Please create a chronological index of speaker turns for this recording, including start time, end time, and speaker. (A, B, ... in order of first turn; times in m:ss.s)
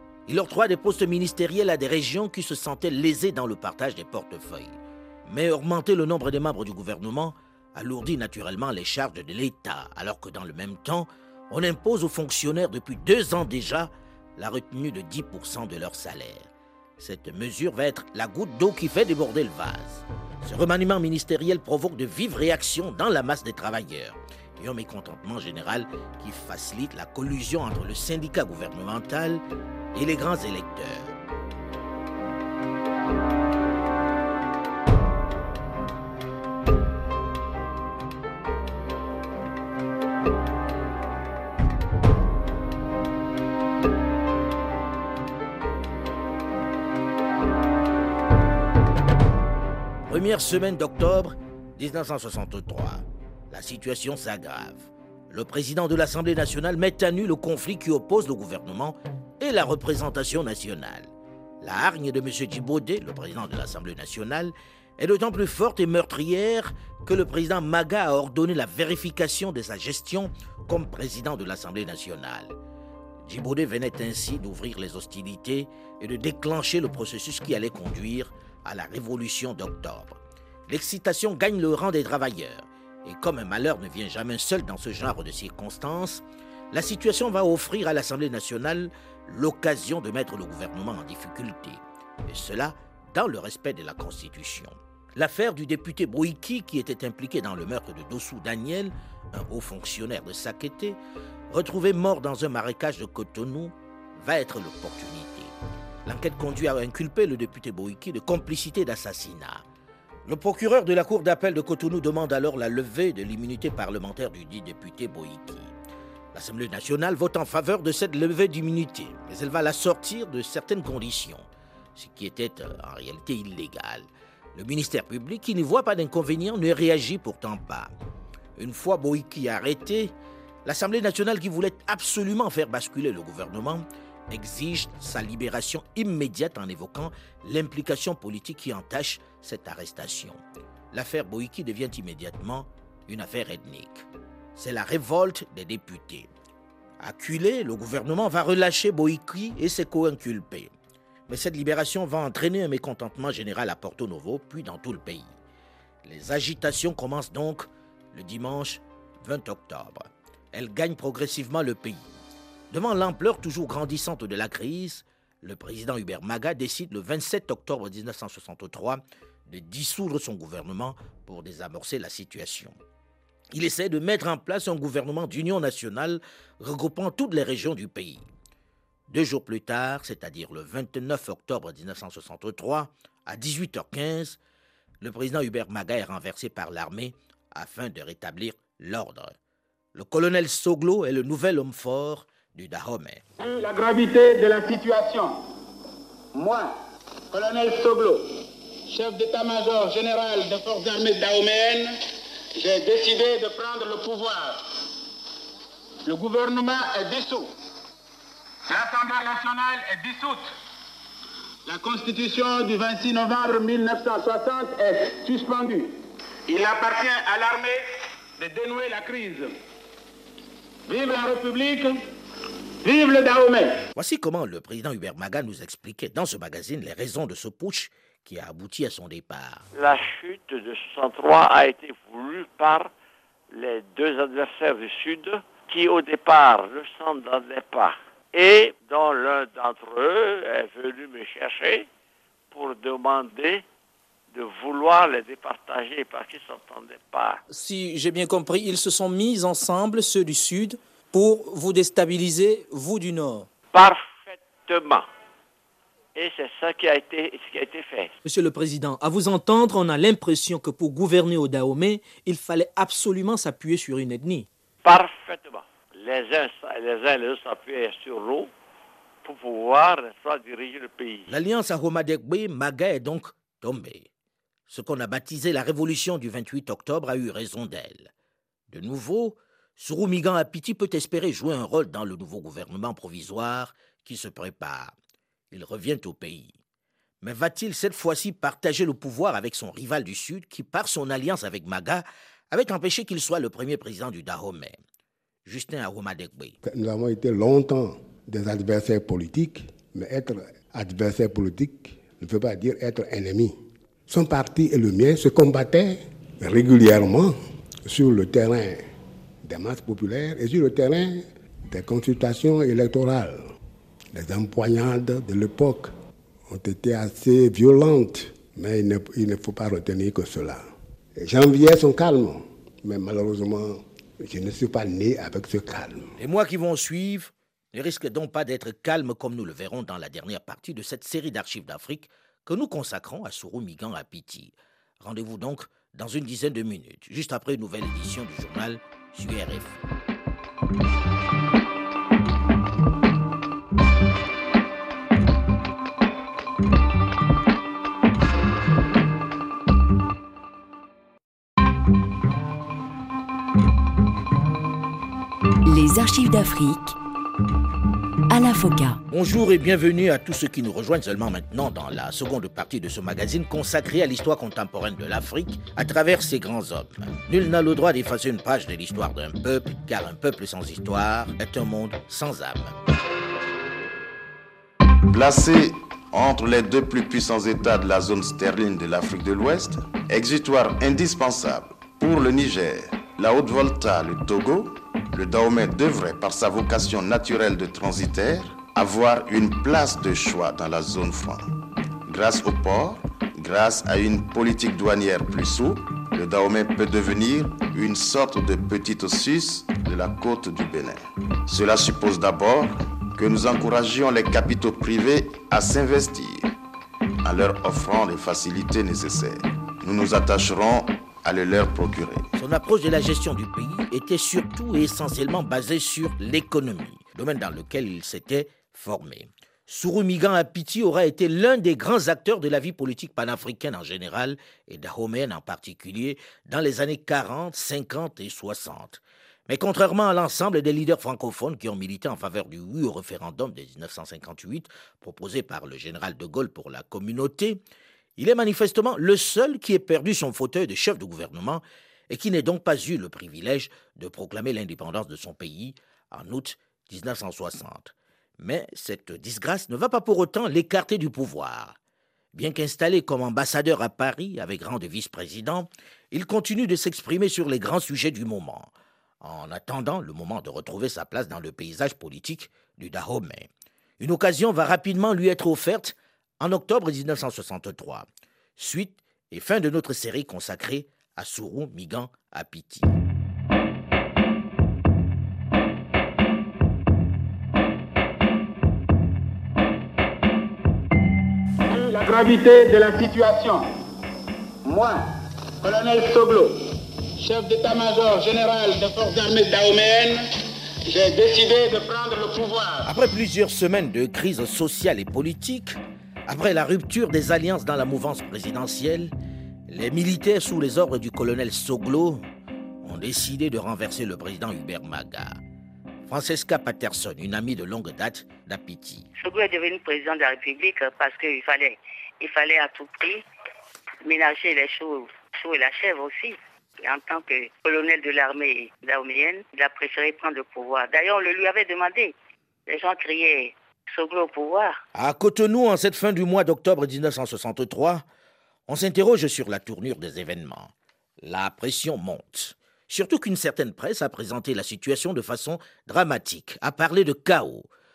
0:00.3-0:29.4 A
0:29.9-0:31.1 A
0:50.1-1:12.6 A
1:13.3-1:41.0 A
1:41.5-1:45.5 A
1:46.0-1:49.6 A
1:50.2-1:55.7 A
1:56.3-2:07.9 A
2:08.6-2:10.1 A
2:10.6-2:20.4 A
2:20.9-2:26.3 A
2:27.0-2:30.7 A
2:31.3-2:35.4 A
2:36.0-2:42.1 A
2:42.7-2:52.8 A
2:53.5-2:58.3 A
2:59.1-3:04.4 A
3:05.0-3:09.3 A
3:10.0-3:13.2 A
3:13.4-3:15.4 B
3:16.3-3:16.7 B
3:17.3-3:22.0 B
3:22.6-3:24.8 B
3:26.0-3:27.5 B
3:28.7-3:30.5 B
3:31.6-3:37.8 B
3:38.4-3:39.5 B
3:40.9-3:42.0 B
3:42.8-3:43.8 B
3:44.0-3:49.6 A
3:49.7-3:52.9 C
3:53.5-4:01.9 C
4:02.5-4:03.6 C
4:04.3-4:07.4 C
4:07.5-4:13.5 D
4:13.7-4:15.1 C
4:16.2-4:18.1 C
4:18.2-4:24.5 D
4:24.8-4:28.5 C
4:29.2-4:31.3 C
4:31.3-4:34.1 A
4:34.7-4:38.1 A
4:38.7-4:44.9 A
4:45.5-4:46.6 A
4:47.2-4:54.8 A
4:55.4-4:56.6 A
4:56.6-5:03.6 E
5:04.1-5:08.8 E
5:09.4-5:13.5 E
5:14.1-5:15.9 E
5:16.5-5:20.6 E
5:21.2-5:26.1 E
5:26.2-5:39.8 A
5:55.6-5:57.0 F
5:58.3-5:59.0 F
5:59.1-6:12.8 A
6:15.1-6:31.5 G
6:32.1-6:46.5 G
6:47.2-6:52.3 G
6:52.4-7:17.6 A
7:18.2-7:31.8 A
7:32.3-7:38.7 A
7:39.2-7:48.1 A
7:48.6-7:53.0 A
8:01.6-8:03.7 B
8:04.6-8:05.0 B
8:05.6-8:10.3 B
8:10.9-8:12.9 B
8:12.8-8:19.1 A
8:19.7-8:22.2 A
8:22.8-8:25.4 A
8:26.1-8:29.1 A
8:29.2-8:33.2 H
8:34.0-8:42.2 H
8:42.7-8:44.8 H
8:44.9-8:48.0 A
8:48.7-8:57.7 A